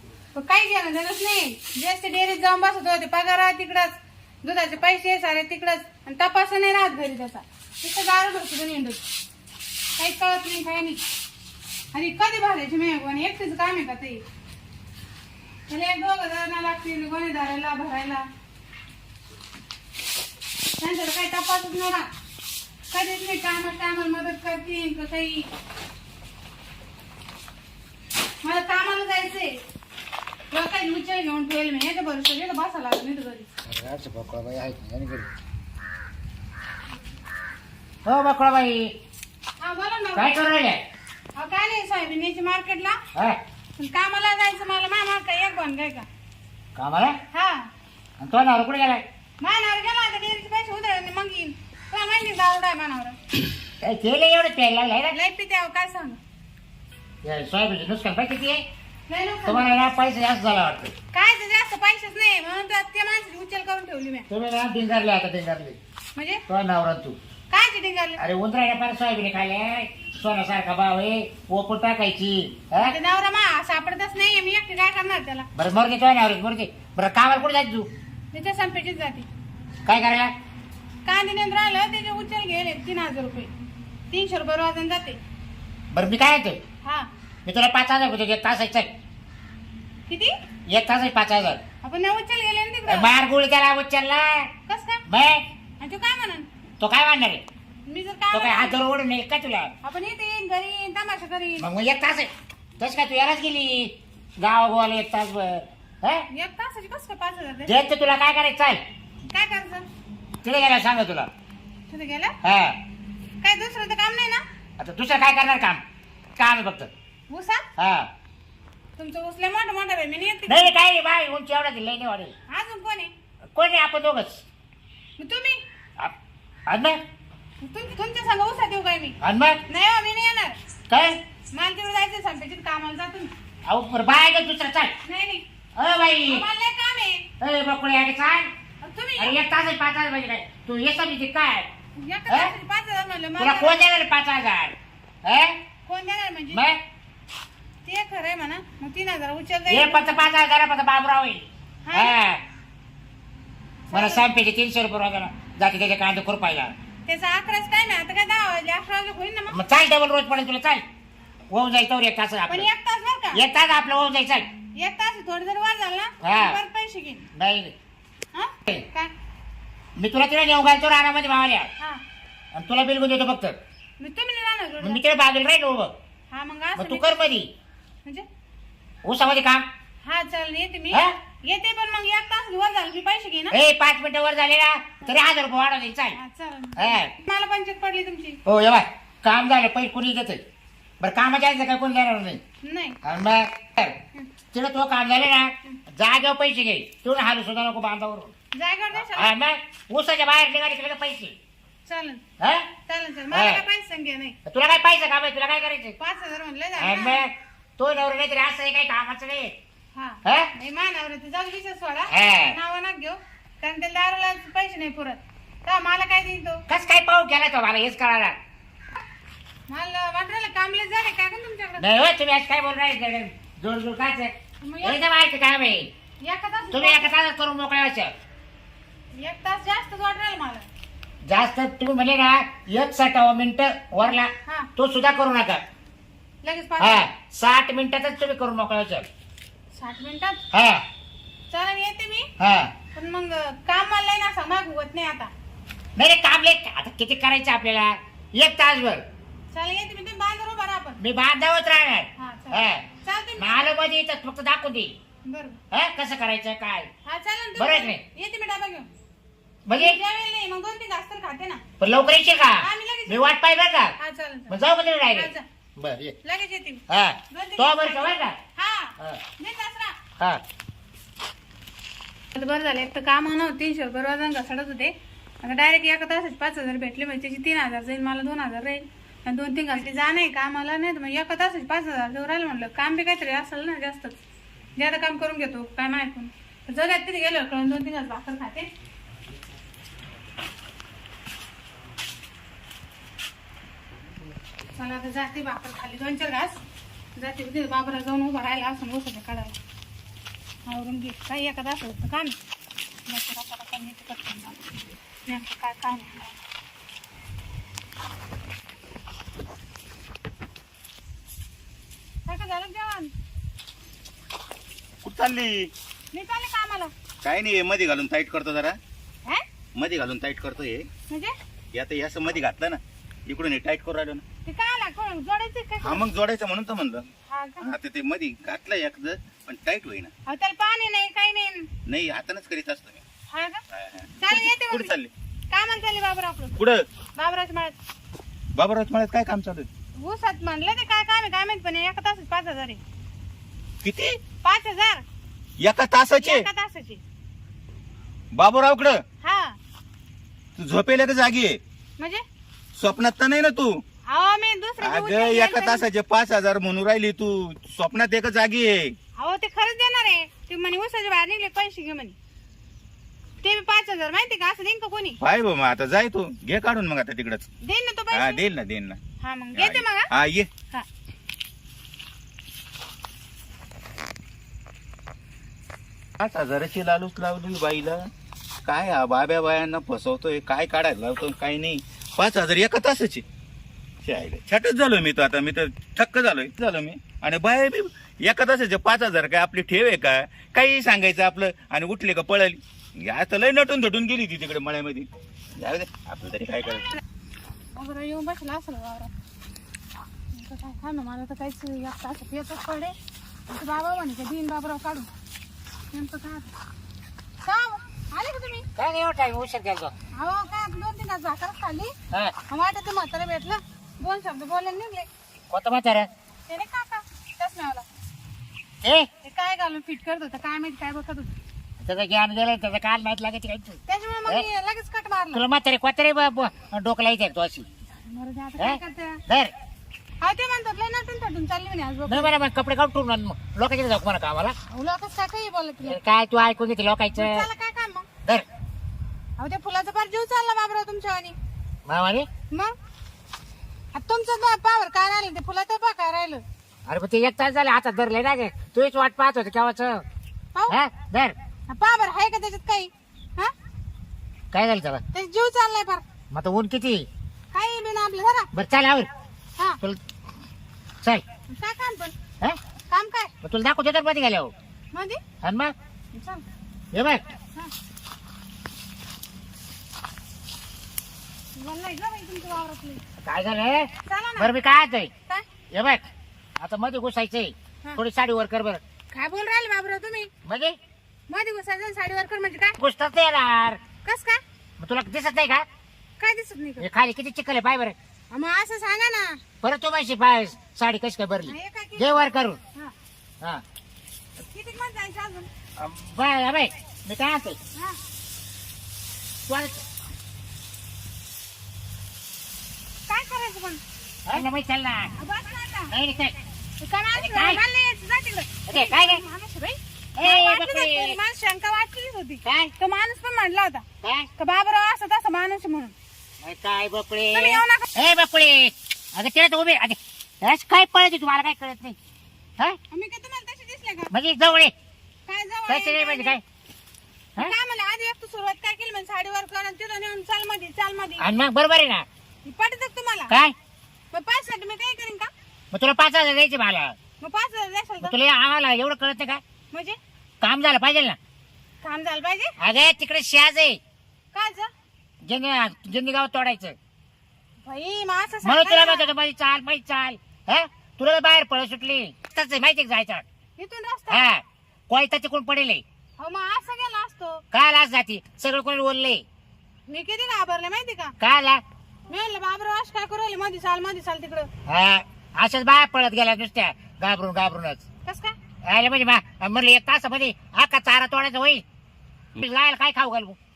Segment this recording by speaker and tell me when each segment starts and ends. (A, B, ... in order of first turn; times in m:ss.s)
0:00.3-0:09.0 A
0:10.0-0:11.0 A
0:11.9-0:14.2 A
0:15.7-0:18.3 A
0:20.8-0:22.1 A
0:22.9-0:25.5 A
0:28.4-0:29.6 A
0:30.5-0:33.5 A
0:33.6-0:35.3 B
0:38.0-0:38.9 B
0:39.6-0:40.4 A
0:40.2-0:40.8 B
0:41.4-0:43.0 A
0:43.1-0:43.4 B
0:43.8-0:46.1 A
0:46.8-0:47.2 B
0:47.3-0:47.7 A
0:48.2-0:49.0 B
0:49.4-0:53.2 A
0:53.8-0:55.2 B
0:55.1-0:56.2 A
0:57.2-0:58.6 B
0:59.1-0:59.7 A
0:59.5-1:00.9 B
1:01.1-1:04.3 A
1:04.3-1:05.8 B
1:06.2-1:06.4 A
1:06.5-1:07.2 B
1:07.5-1:08.2 A
1:08.2-1:13.0 B
1:12.8-1:15.5 A
1:15.6-1:17.9 B
1:18.3-1:19.3 A
1:19.8-1:20.3 B
1:21.0-1:23.5 A
1:24.1-1:25.2 A
1:25.9-1:26.6 B
1:26.8-1:27.1 A
1:27.4-1:28.9 B
1:30.1-1:30.3 A
1:30.7-1:31.6 B
1:31.8-1:33.1 A
1:32.9-1:34.5 B
1:34.7-1:35.0 A
1:35.1-1:35.4 B
1:35.8-1:36.5 A
1:36.8-1:37.4 B
1:37.9-1:38.8 A
1:38.3-1:39.7 B
1:39.8-1:41.7 A
1:41.6-1:46.3 B
1:46.3-1:47.7 A
1:47.7-1:48.8 B
1:49.3-1:49.9 A
1:50.4-1:51.3 B
1:51.9-1:52.4 A
1:52.4-1:52.8 B
1:53.4-1:54.4 A
1:54.8-1:55.8 B
1:56.4-1:56.9 B
1:57.3-1:57.7 A
1:57.8-1:58.1 B
1:59.0-2:00.7 A
2:00.5-2:02.3 B
2:02.5-2:03.1 A
2:03.6-2:04.4 B
2:05.2-2:05.6 A
2:06.7-2:07.0 B
2:07.6-2:09.2 A
2:09.2-2:09.6 B
2:09.7-2:10.6 A
2:10.9-2:11.2 B
2:11.5-2:13.3 A
2:13.7-2:14.9 B
2:15.0-2:15.4 A
2:15.8-2:16.5 B
2:16.3-2:17.3 A
2:17.4-2:18.5 B
2:18.8-2:19.4 A
2:19.2-2:21.7 B
2:22.0-2:23.9 A
2:22.3-2:22.5 B
2:23.4-2:25.6 B
2:25.9-2:26.6 A
2:26.5-2:26.8 B
2:27.8-2:30.2 A
2:29.7-2:32.4 B
2:31.8-2:32.2 A
2:33.9-2:34.3 A
2:33.9-2:36.7 B
2:37.1-2:39.7 A
2:39.5-2:40.8 B
2:41.5-2:42.7 B
2:42.5-2:43.4 A
2:43.3-2:44.5 B
2:44.8-2:47.3 A
2:46.2-2:46.6 B
2:47.3-2:47.7 B
2:48.3-2:49.1 A
2:50.0-2:51.7 B
2:52.5-2:53.6 B
2:54.0-2:55.0 A
2:54.8-2:55.9 B
2:56.3-2:57.2 A
2:56.8-2:57.5 B
2:59.0-2:59.7 B
3:00.0-3:03.6 A
3:03.5-3:06.2 B
3:06.2-3:08.4 A
3:06.8-3:07.1 B
3:08.4-3:10.4 B
3:11.0-3:12.4 B
3:12.6-3:13.0 A
3:13.0-3:14.0 B
3:14.5-3:18.3 B
3:18.5-3:19.3 A
3:18.9-3:21.4 B
3:21.9-3:22.2 A
3:22.4-3:22.7 B
3:22.9-3:24.4 A
3:23.3-3:23.6 B
3:24.5-3:26.0 B
3:26.0-3:27.2 A
3:26.8-3:29.5 B
3:29.9-3:36.6 A
3:30.2-3:30.5 B
3:32.1-3:32.6 B
3:36.7-3:38.4 B
3:39.7-3:41.8 A
3:41.8-3:45.9 B
3:44.6-3:45.0 A
3:46.2-3:47.1 A
3:46.7-3:48.1 B
3:49.2-3:50.7 A
3:51.2-3:55.6 B
3:54.4-3:54.7 A
3:56.4-3:57.1 A
3:56.8-3:59.1 B
3:59.7-4:00.4 A
4:00.5-4:00.8 B
4:01.5-4:02.3 A
4:02.4-4:02.7 B
4:02.9-4:05.3 A
4:06.0-4:09.1 B
4:09.5-4:11.0 A
4:11.0-4:12.8 B
4:12.2-4:13.7 A
4:13.4-4:14.9 B
4:15.3-4:15.6 A
4:15.7-4:16.9 B
4:17.0-4:18.9 A
4:17.6-4:18.0 B
4:19.7-4:20.0 B
4:19.8-4:21.6 A
4:21.8-4:23.9 B
4:22.6-4:23.4 A
4:24.0-4:25.4 A
4:24.5-4:26.2 B
4:26.2-4:30.0 A
4:26.9-4:28.4 B
4:32.3-4:44.2 A
4:44.8-4:48.7 A
4:54.8-4:56.6 A
4:57.2-4:59.6 A
5:00.7-5:02.4 A
5:03.1-5:04.6 A
5:05.3-5:06.4 A
5:12.3-5:13.1 A
5:15.0-5:15.7 C
5:16.1-5:16.9 A
5:17.2-5:18.8 C
5:19.8-5:20.9 C
5:21.1-5:21.3 A
5:21.8-5:24.2 C
5:24.4-5:26.0 A
5:25.8-5:27.1 C
5:27.3-5:27.7 A
5:27.6-5:30.1 C
5:30.3-5:31.7 A
5:31.9-5:33.0 C
5:33.3-5:33.6 A
5:33.8-5:35.1 C
5:34.2-5:34.9 A
5:35.5-5:36.6 A
5:36.6-5:36.8 C
5:37.2-5:37.8 A
5:38.6-5:39.7 C
5:40.0-5:42.8 A
5:43.8-5:44.2 C
5:44.4-5:45.0 A
5:45.6-5:46.5 C
5:46.2-5:47.0 A
5:48.3-5:49.0 C
5:49.2-5:49.6 A
5:50.6-5:51.6 C
5:52.0-5:52.2 A
5:52.8-5:53.8 C
5:54.1-5:55.8 A
5:54.8-5:59.0 C
5:59.2-6:02.2 A
6:03.4-6:05.2 A
6:05.2-6:07.5 C
6:07.6-6:08.4 A
6:08.1-6:09.0 C
6:09.2-6:10.1 A
6:09.6-6:10.5 C
6:16.2-6:18.1 C
6:18.6-6:23.2 C
6:24.0-6:36.9 C
6:37.7-6:39.1 A
6:40.3-6:43.0 A
6:43.5-6:45.1 A
6:45.9-6:46.5 A
6:47.4-6:48.6 A
6:48.8-6:49.9 B
6:50.2-6:51.9 A
6:52.5-6:55.1 A
6:55.5-6:56.1 B
6:56.5-6:57.9 A
6:58.8-6:59.1 B
6:59.2-7:01.3 A
7:01.8-7:04.5 B
7:03.9-7:05.4 A
7:05.3-7:07.7 B
7:08.0-7:09.2 A
7:08.6-7:09.5 B
7:10.2-7:12.3 A
7:12.1-7:14.6 B
7:14.7-7:16.0 A
7:15.8-7:17.5 B
7:17.1-7:18.1 A
7:19.4-7:21.4 A
7:21.9-7:22.3 B
7:24.0-7:26.4 A
7:26.9-7:30.0 B
7:30.7-7:31.4 B
7:31.7-7:33.5 A
7:34.5-7:35.0 B
7:35.1-7:36.0 A
7:36.3-7:37.1 B
7:37.5-7:38.5 A
7:38.5-7:39.1 B
7:41.5-7:42.2 A
7:42.9-7:43.3 A
7:43.4-7:44.5 B
7:44.9-7:45.2 A
7:45.4-7:45.7 B
7:46.1-7:46.4 A
7:46.9-7:47.2 B
7:51.6-7:53.0 A
7:53.2-7:55.1 B
7:54.0-7:54.5 A
7:55.7-7:56.1 B
7:56.6-7:58.8 B
7:59.1-8:00.3 A
8:00.4-8:00.8 B
8:01.3-8:02.8 A
8:02.8-8:03.8 B
8:04.0-8:04.4 A
8:04.8-8:05.6 B
8:06.2-8:06.9 A
8:06.8-8:08.0 B
8:08.3-8:09.4 A
8:09.6-8:12.6 B
8:11.4-8:12.9 A
8:14.5-8:15.5 A
8:15.8-8:17.6 B
8:19.5-8:19.8 B
8:23.1-8:24.4 A
8:24.3-8:25.1 B
8:25.2-8:25.9 A
8:25.9-8:26.4 B
8:26.8-8:33.8 A
8:27.2-8:27.6 B
8:28.7-8:29.2 B
8:30.2-8:31.2 B
8:32.4-8:32.7 B
8:34.0-8:34.3 B
8:34.4-8:36.0 A
8:36.4-8:42.0 B
8:37.3-8:37.9 A
8:42.9-8:44.1 A
8:44.1-8:44.7 B
8:45.3-8:46.4 A
8:45.7-8:46.4 B
8:47.4-8:51.3 A
8:51.2-8:52.1 B
8:52.4-8:53.3 A
8:53.3-8:53.5 B
8:54.1-8:55.3 A
8:55.7-8:57.0 B
8:57.2-8:58.2 A
8:58.0-8:59.4 B
8:59.7-9:00.0 A
9:00.4-9:01.2 B
9:01.8-9:02.6 A
9:02.6-9:03.8 B
9:04.3-9:04.7 A
9:05.2-9:06.8 B
9:07.6-9:09.1 A
9:08.4-9:13.2 B
9:13.6-9:14.3 A
9:14.1-9:15.8 B
9:16.2-9:17.4 A
9:17.5-9:19.2 B
9:19.9-9:21.1 A
9:21.2-9:21.6 B
9:22.1-9:24.5 A
9:24.7-9:27.8 B
9:28.0-9:28.4 A
9:28.7-9:31.6 B
9:32.4-9:33.4 B